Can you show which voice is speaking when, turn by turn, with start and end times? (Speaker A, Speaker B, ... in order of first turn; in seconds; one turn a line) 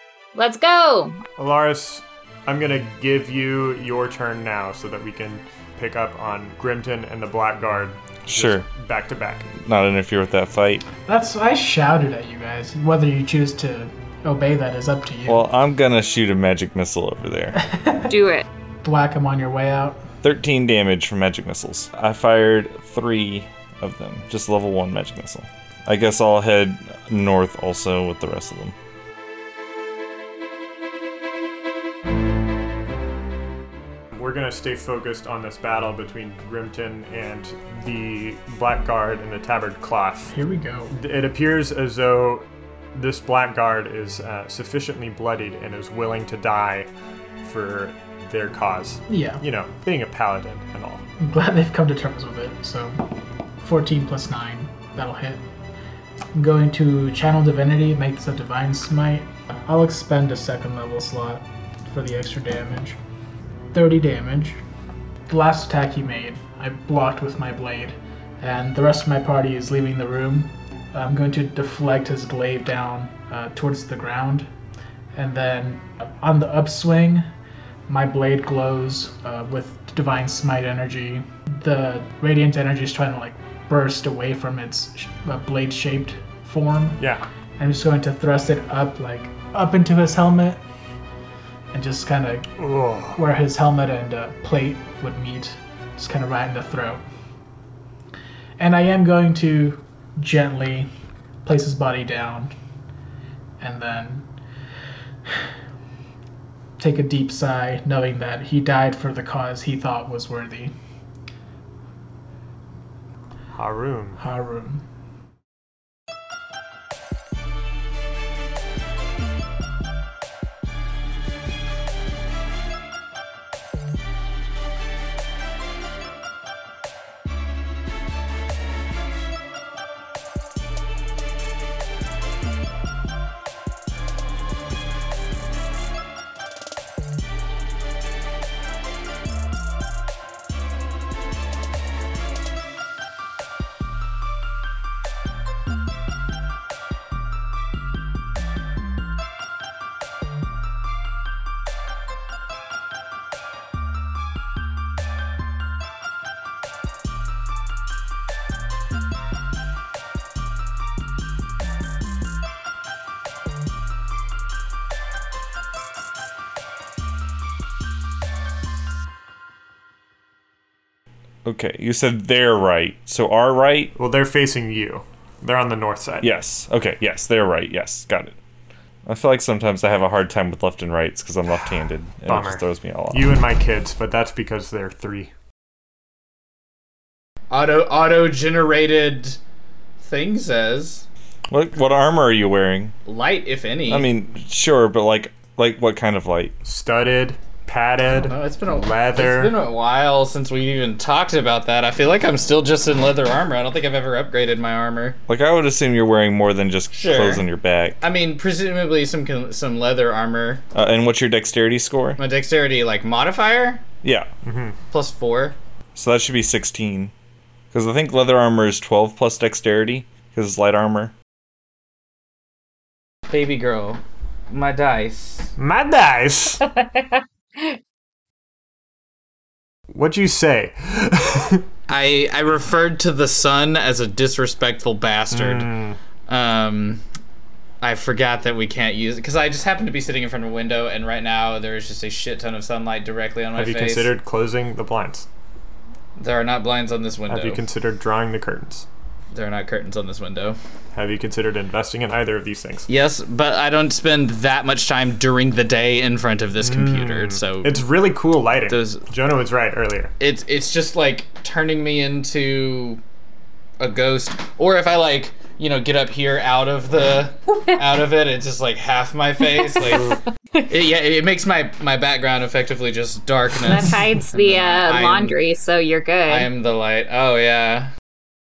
Speaker A: 0.3-1.2
Speaker B: 1.4-9.5
Speaker C: 8.3-8.7
Speaker C: 9.6-10.8
Speaker D: 11.1-15.4
Speaker C: 15.3-17.6
Speaker D: 17.6-18.1
Speaker A: 18.1-18.4
Speaker D: 18.8-20.0
Speaker C: 20.2-28.7
Speaker B: 34.1-40.3
Speaker D: 40.3-40.9
Speaker B: 40.9-46.9
Speaker B: 47.4-51.0
Speaker D: 49.1-49.4
Speaker D: 51.2-53.0
Speaker D: 53.6-55.4
Speaker D: 56.3-63.0
Speaker D: 63.7-64.6
Speaker D: 65.3-74.5
Speaker D: 75.1-77.3
Speaker D: 77.9-87.0
Speaker D: 87.6-90.6
Speaker D: 91.7-92.5
Speaker B: 92.6-93.2
Speaker D: 93.1-97.0
Speaker D: 98.6-100.9
Speaker D: 101.4-102.5
Speaker D: 103.6-104.2
Speaker D: 106.8-110.7
Speaker B: 113.5-114.2
Speaker D: 114.2-114.8
Speaker C: 171.4-173.9
Speaker B: 173.9-176.3
Speaker C: 176.2-178.4
Speaker C: 179.1-183.4
Speaker B: 182.3-185.3
Speaker E: 187.5-189.4
Speaker E: 190.0-191.0
Speaker C: 191.5-192.9
Speaker E: 193.1-194.1
Speaker C: 193.9-196.5
Speaker B: 196.6-199.5
Speaker E: 198.0-205.2
Speaker C: 205.3-208.0
Speaker E: 206.9-207.4
Speaker E: 208.0-210.6
Speaker C: 210.7-212.2
Speaker E: 212.2-213.8
Speaker C: 214.0-214.3
Speaker B: 214.4-214.8
Speaker E: 214.9-215.6
Speaker C: 215.9-217.1
Speaker C: 217.7-221.1
Speaker E: 223.3-225.5
Speaker B: 225.6-226.6
Speaker A: 226.8-227.8
Speaker B: 229.9-231.6
Speaker E: 231.9-235.7
Speaker B: 235.3-236.0
Speaker E: 236.3-237.0
Speaker E: 237.8-244.1
Speaker B: 243.6-245.3
Speaker E: 246.2-247.6
Speaker B: 247.3-248.8
Speaker E: 249.3-250.6
Speaker B: 250.9-252.9
Speaker E: 252.9-257.8
Speaker B: 256.6-260.1
Speaker E: 258.7-259.0
Speaker E: 260.2-263.0
Speaker E: 263.8-275.4
Speaker A: 269.6-270.0
Speaker A: 273.6-276.5
Speaker E: 276.3-277.9